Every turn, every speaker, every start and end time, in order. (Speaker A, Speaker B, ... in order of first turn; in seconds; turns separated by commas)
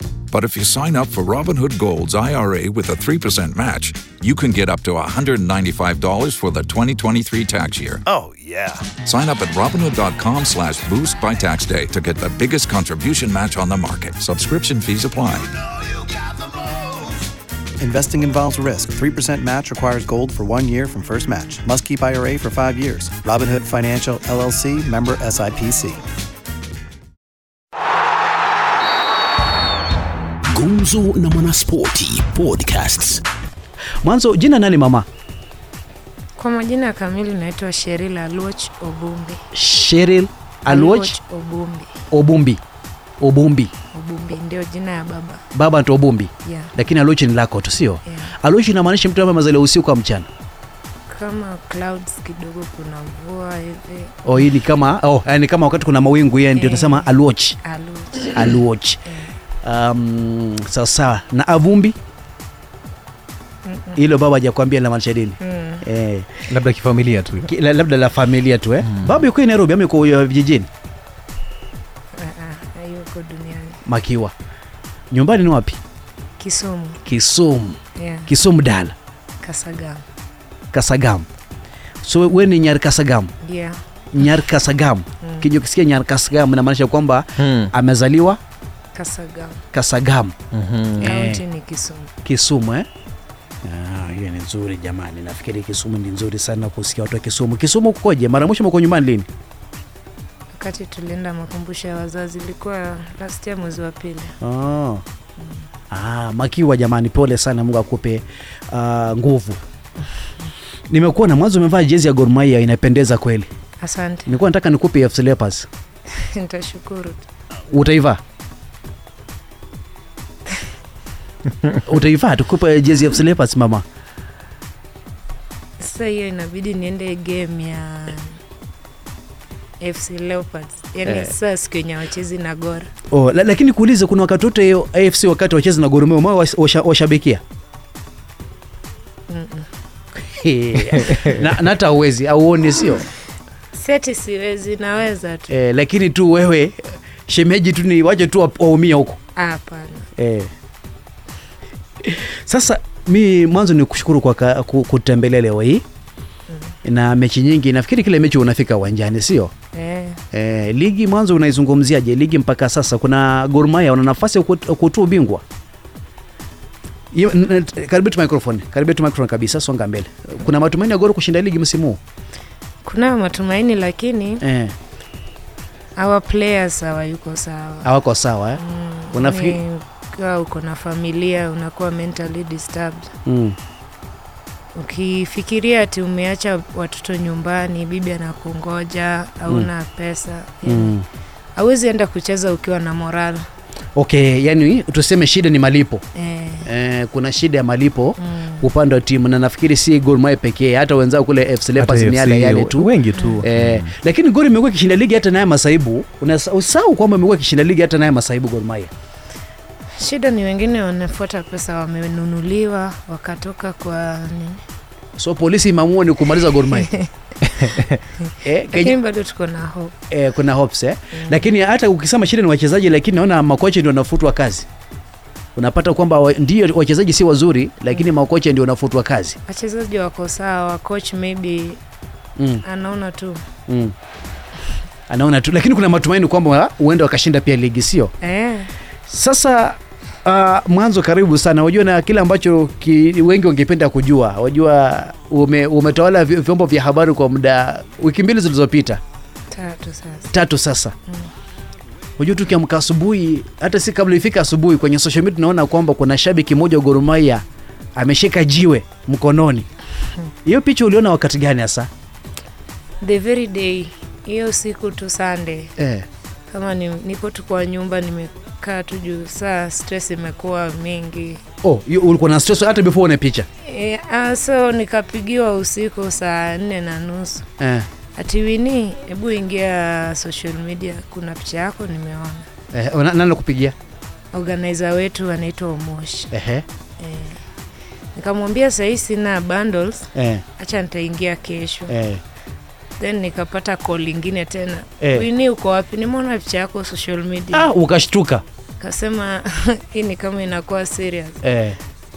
Speaker A: 0.3-8.0, Speaker B: 8.1-8.9, Speaker A: 9.0-15.5, Speaker B: 16.0-17.1, Speaker B: 17.8-26.0, Speaker B: 30.5-30.9, Speaker C: 30.5-33.2, Speaker D: 34.0-35.0, Speaker E: 36.4-39.4, Speaker D: 39.5-41.1, Speaker E: 40.7-42.0, Speaker D: 42.1-42.6, Speaker D: 43.2-43.7, Speaker E: 43.9-45.4, Speaker D: 45.5-50.3, Speaker E: 46.4-46.7, Speaker E: 48.0-48.3, Speaker E: 51.1-54.2, Speaker D: 54.2-57.6, Speaker E: 56.5-57.1, Speaker E: 57.6-58.4, Speaker D: 58.3-59.0, Speaker D: 59.6-62.0, Speaker E: 63.6-64.0, Speaker D: 64.0-66.3, Speaker E: 65.4-65.8, Speaker F: 66.5-67.5, Speaker D: 67.5-70.7, Speaker F: 68.8-69.2, Speaker E: 72.2-73.8, Speaker D: 73.8-74.3, Speaker D: 75.1-75.8, Speaker E: 76.4-77.0, Speaker D: 77.0-78.9, Speaker E: 78.0-78.3, Speaker E: 79.4-80.0, Speaker D: 80.7-81.2, Speaker D: 82.0-83.3, Speaker E: 83.4-83.8, Speaker D: 84.1-88.4, Speaker F: 87.4-87.7, Speaker E: 88.9-89.6, Speaker D: 89.7-90.3, Speaker F: 90.5-91.1, Speaker D: 91.0-91.4, Speaker E: 91.0-92.1, Speaker D: 92.2-92.9, Speaker D: 93.6-99.3, Speaker E: 100.5-104.3, Speaker D: 104.4-105.0, Speaker D: 105.9-109.6, Speaker D: 110.9-113.5, Speaker E: 113.8-114.3, Speaker D: 114.2-115.7, Speaker E: 116.1-117.2, Speaker D: 117.7-118.2, Speaker D: 121.7-123.8, Speaker E: 125.8-128.4, Speaker E: 129.8-132.9, Speaker D: 131.1-131.3, Speaker D: 133.1-137.4, Speaker E: 139.3-139.7, Speaker D: 140.2-143.0, Speaker E: 143.7-145.5, Speaker D: 145.5-149.2, Speaker E: 149.3-150.1, Speaker D: 150.2-150.5, Speaker D: 152.0-155.8, Speaker D: 156.8-159.5, Speaker E: 159.7-160.2, Speaker D: 160.3-165.4, Speaker D: 167.1-172.0, Speaker E: 172.8-174.4, Speaker D: 174.4-174.7, Speaker E: 175.9-177.9, Speaker D: 177.8-178.6, Speaker E: 178.6-183.1, Speaker D: 179.1-179.6, Speaker D: 183.2-183.6, Speaker E: 184.7-190.9, Speaker D: 190.6-191.0, Speaker E: 191.6-193.4, Speaker D: 193.9-196.0, Speaker E: 196.1-196.7, Speaker D: 196.6-208.9, Speaker E: 198.2-198.7, Speaker F: 201.8-203.9, Speaker E: 203.1-203.4, Speaker E: 210.0-214.6, Speaker D: 215.2-216.9, Speaker E: 218.3-219.9, Speaker D: 218.4-219.0, Speaker D: 220.1-224.7, Speaker E: 221.1-221.4, Speaker D: 225.6-229.4, Speaker E: 229.5-231.8, Speaker D: 232.4-232.6, Speaker E: 232.6-233.4, Speaker D: 233.7-233.9, Speaker D: 235.1-238.1, Speaker E: 238.2-238.7, Speaker D: 239.1-249.0, Speaker E: 249.5-250.3, Speaker D: 250.3-250.9, Speaker D: 252.2-257.4, Speaker D: 257.9-259.7, Speaker D: 260.4-261.9, Speaker E: 263.0-265.7, Speaker D: 265.8-266.1, Speaker E: 266.5-271.4, Speaker D: 271.6-273.4, Speaker E: 273.6-277.5, Speaker D: 277.6-277.9, Speaker E: 278.1-282.4, Speaker D: 282.7-283.7, Speaker E: 284.3-286.3, Speaker D: 286.3-286.6, Speaker E: 287.0-287.4, Speaker E: 288.1-291.9, Speaker D: 290.1-290.4, Speaker D: 291.9-292.2, Speaker E: 293.0-297.7, Speaker D: 295.0-295.2, Speaker D: 297.5-298.4, Speaker E: 298.8-301.4, Speaker D: 301.4-301.8